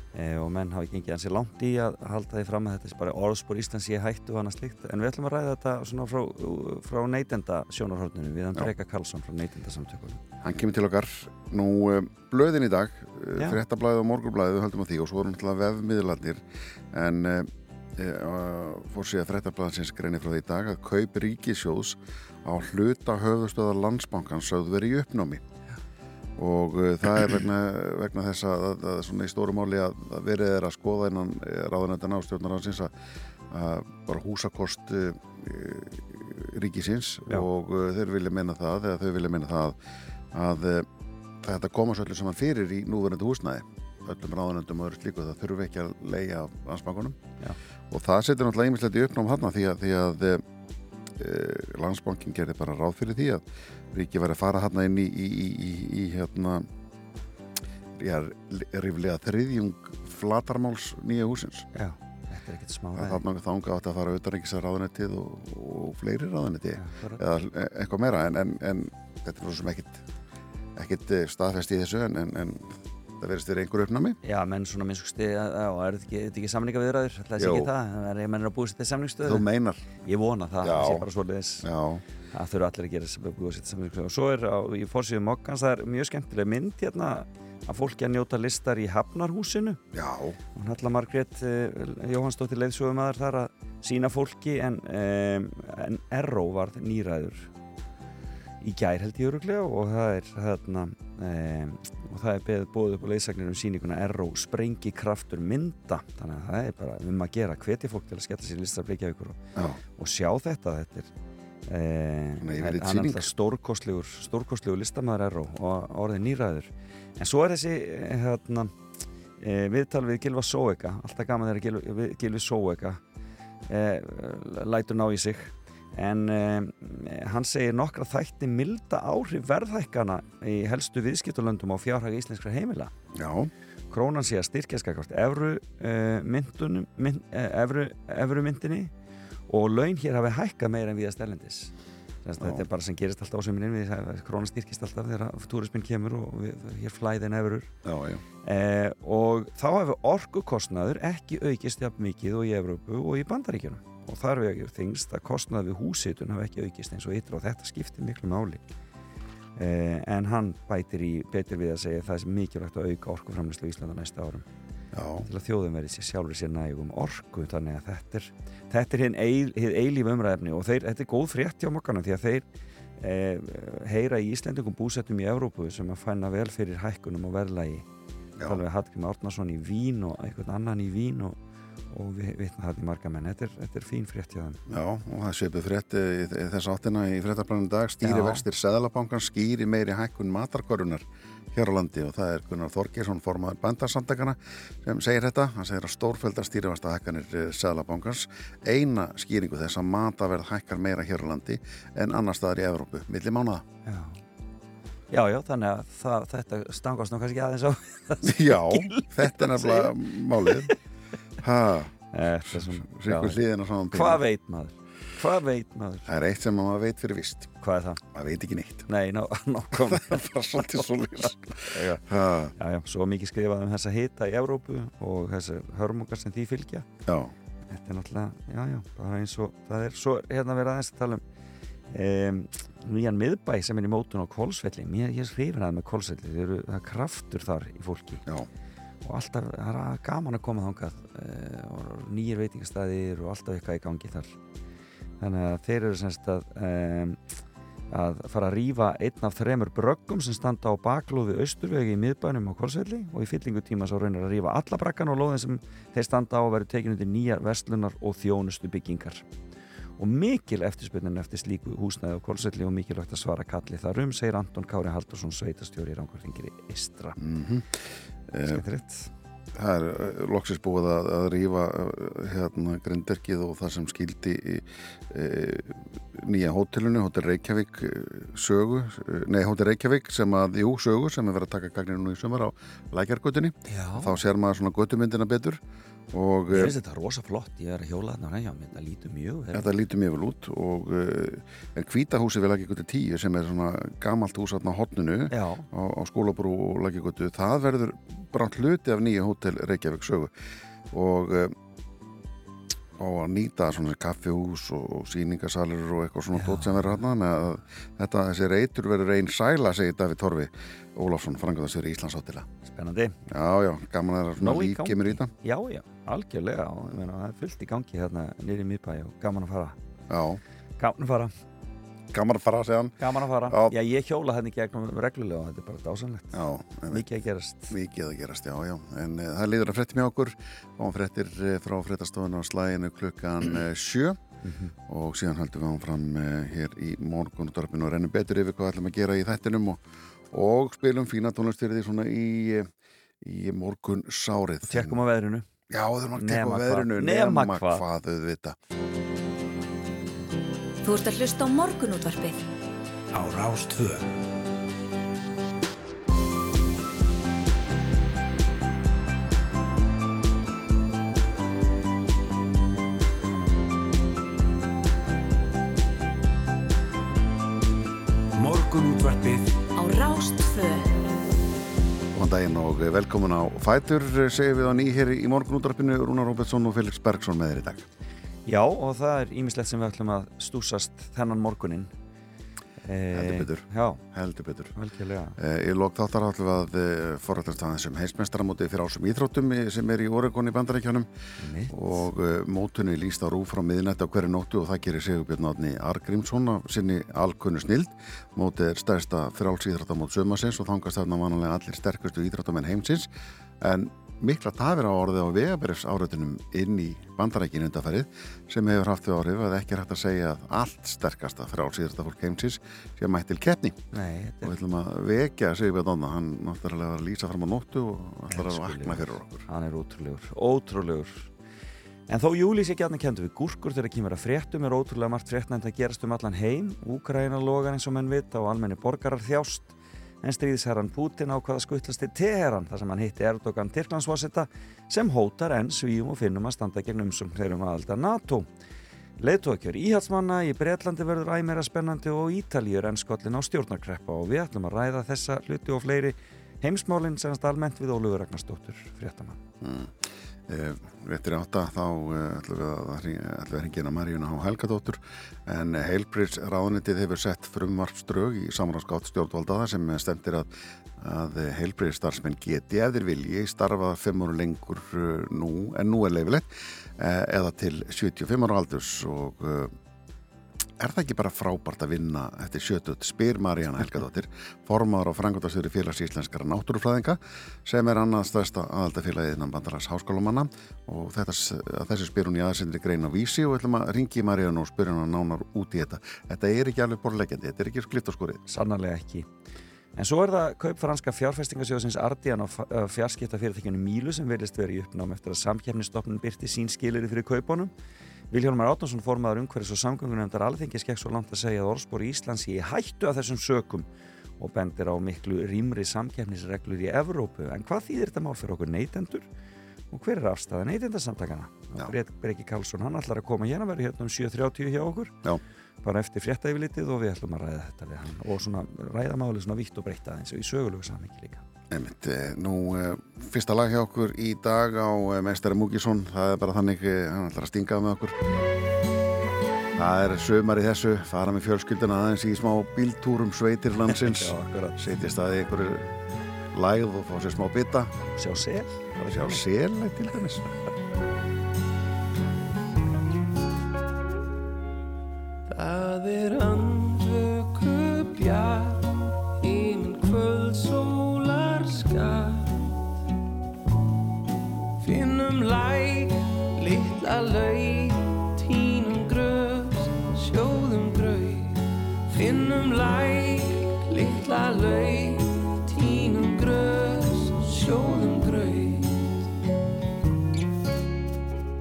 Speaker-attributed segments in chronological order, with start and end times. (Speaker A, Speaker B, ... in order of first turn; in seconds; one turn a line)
Speaker A: 0.1-10.2
Speaker B: 10.4-25.4
Speaker B: 26.4-32.9
Speaker B: 33.5-39.8
Speaker B: 40.3-40.9
Speaker B: 41.4-47.2
Speaker B: 47.9-50.4
Speaker B: 51.2-56.7
Speaker B: 58.0-61.7
Speaker A: 61.8-63.2
Speaker B: 63.0-70.0
Speaker A: 66.8-67.2
Speaker B: 70.8-74.2
Speaker A: 74.2-79.5
Speaker B: 77.4-77.7
Speaker B: 79.2-79.8
Speaker A: 80.0-81.7
Speaker B: 80.6-81.1
Speaker B: 81.6-82.0
Speaker A: 82.3-89.8
Speaker B: 89.9-90.4
Speaker A: 90.6-97.5
Speaker A: 98.6-109.4
Speaker B: 109.6-109.8
Speaker A: 110.0-111.1
Speaker A: 111.7-118.7
Speaker B: 112.4-113.3
Speaker A: 119.4-123.0
Speaker A: 123.7-132.9
Speaker B: 133.1-133.5
Speaker A: 133.9-138.9
Speaker A: 139.5-141.7
Speaker A: 142.2-147.7
Speaker B: 142.4-142.6
Speaker B: 147.8-148.2
Speaker A: 148.4-158.6
Speaker A: 159.6-164.5
Speaker B: 164.9-165.3
Speaker A: 165.3-172.5
Speaker A: 173.0-177.9
Speaker A: 178.4-181.4
Speaker A: 181.9-184.6
Speaker B: 184.7-203.7
Speaker A: 188.0-188.4
Speaker A: 203.9-204.2
Speaker A: 205.1-210.7
Speaker B: 208.2-210.7
Speaker B: 211.4-211.9
Speaker A: 212.1-213.4
Speaker B: 212.5-214.2
Speaker A: 213.9-216.1
Speaker B: 216.1-217.5
Speaker A: 217.6-218.0
Speaker B: 218.1-218.9
Speaker A: 218.9-220.9
Speaker B: 219.7-222.6
Speaker A: 221.7-222.0
Speaker A: 222.6-226.9
Speaker B: 227.1-227.3
Speaker A: 227.7-231.2
Speaker A: 231.9-238.2
Speaker A: 239.0-244.4
Speaker A: 245.2-247.2
Speaker A: 247.9-259.2
Speaker A: 260.0-267.2
Speaker B: 267.2-268.6
Speaker A: 268.4-269.1
Speaker B: 269.5-285.6
Speaker A: 283.7-284.2
Speaker B: 286.1-286.8
Speaker A: 286.5-289.7
Speaker B: 289.5-300.3
Speaker A: 295.3-295.7
Speaker B: 300.9-301.6
Speaker B: 303.0-312.5
Speaker A: 306.3-307.0
Speaker A: 312.6-313.2
Speaker B: 313.3-315.3
Speaker A: 314.4-319.8
Speaker B: 320.1-320.4
Speaker A: 320.8-321.3
Speaker B: 322.1-322.9
Speaker A: 323.0-327.7
Speaker B: 323.5-323.7
Speaker B: 326.3-327.1
Speaker B: 327.7-334.2
Speaker A: 334.4-334.7
Speaker B: 334.9-342.7
Speaker B: 343.2-345.0
Speaker A: 344.7-345.5
Speaker B: 345.7-348.6
Speaker A: 346.2-347.9
Speaker C: 350.8-352.4
Speaker D: 353.1-354.1
Speaker D: 368.4-369.6
Speaker C: 369.8-371.0
Speaker B: 372.1-377.9
Speaker A: 378.5-381.9
Speaker A: 382.8-384.0
Speaker B: 383.1-384.7
Speaker A: 384.8-385.4
Speaker B: 385.4-391.1
Speaker A: 391.4-392.1
Speaker B: 391.7-403.1
Speaker B: 403.6-413.8
Speaker A: 413.9-414.6
Speaker B: 414.4-419.5
Speaker A: 418.3-421.3
Speaker A: 422.1-438.5
Speaker A: 439.2-449.4
Speaker B: 449.6-469.7
Speaker B: 470.8-488.4
Speaker A: 488.5-489.3
Speaker A: 490.0-497.7
Speaker A: 498.3-503.9
Speaker A: 504.4-509.3
Speaker A: 509.9-515.2
Speaker A: 515.8-521.4
Speaker B: 521.7-528.2
Speaker B: 529.8-535.9
Speaker A: 533.9-534.8
Speaker B: 536.5-537.9
Speaker A: 538.1-539.5
Speaker B: 539.0-540.5
Speaker E: 545.5-552.6
Speaker E: 554.8-569.1